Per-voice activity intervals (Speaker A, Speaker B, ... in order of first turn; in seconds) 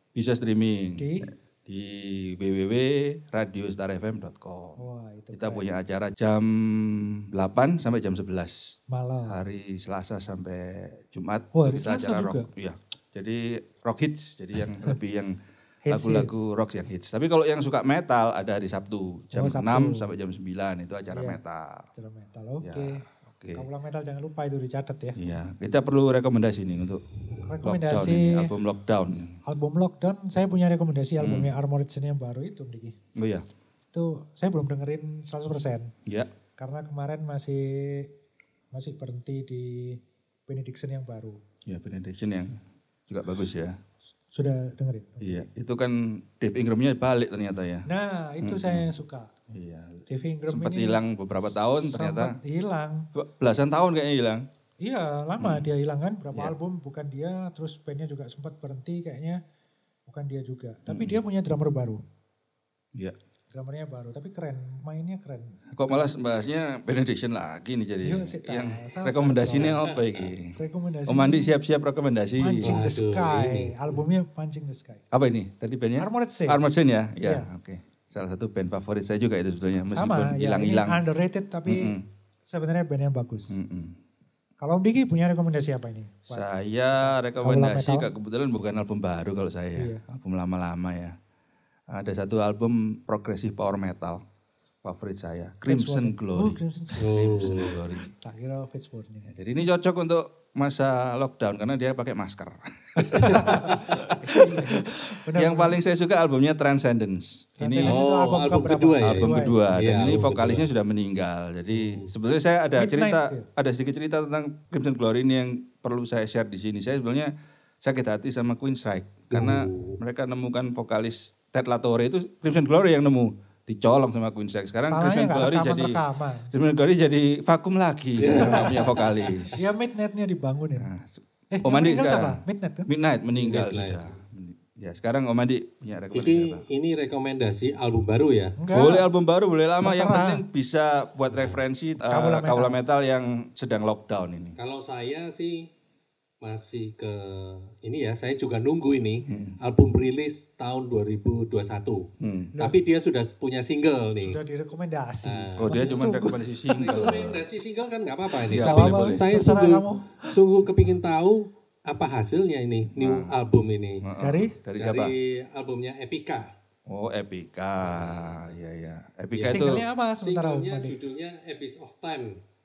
Speaker A: 0.1-4.8, 5.3-8.8, 9.3-15.4, 15.9-21.9, 22.6-23.6, 25.2-27.0, 27.6-29.4, 31.2-31.5, 33.1-33.4, 36.0-36.3, 41.7-43.8, 45.2-47.9, 48.4-48.9, 49.5-52.3, 53.1-54.4, 55.4-55.7, 60.9-61.2, 65.7-72.8, 75.1-81.0, 81.7-82.0, 83.5-84.0, 86.3-91.1, 91.9-94.2, 94.8-98.1, 99.3-108.0, 109.0-117.3, 117.8-129.7, 130.8-136.6, 138.7-144.6, 149.3-149.6, 152.2-152.5, 155.6-157.4, 158.5-159.2, 162.9-163.3, 164.0-165.1, 166.9-169.8
Speaker B: 0.9-1.3, 4.8-5.7, 8.9-9.4, 11.5-12.5, 15.8-16.4, 19.3-20.1, 21.1-21.4, 21.9-25.2, 27.4-28.5, 29.4-33.0, 33.9-35.9, 36.6-38.1, 38.7-41.4, 44.3-45.5, 47.9-49.3, 50.1-51.0, 51.7-53.1, 54.8-59.4, 60.1-62.0, 63.5-66.2, 68.0-69.8, 70.5-71.5, 72.4-75.0, 76.0-76.6, 79.9-81.9, 82.5-83.6, 84.6-88.1, 89.8-90.0, 95.7-99.3, 103.0-105.8, 107.6-109.6, 112.8-113.5, 124.9-126.5, 128.3-128.8, 129.5-130.9, 131.5-132.9, 138.6-139.1, 139.8-140.4, 142.0-142.8, 154.2-156.3, 158.6-160.2, 164.2-164.5, 169.5-171.0
Speaker C: 72.6-74.0, 97.0-97.8, 107.8-110.7, 111.7-112.1, 119.3-120.0, 128.2-129.5, 133.3-134.1, 136.1-138.6, 141.3-141.6, 144.6-145.7, 146.4-154.4, 155.2-155.9, 156.8-164.0, 164.8-166.5, 167.8-168.5, 169.3-172.4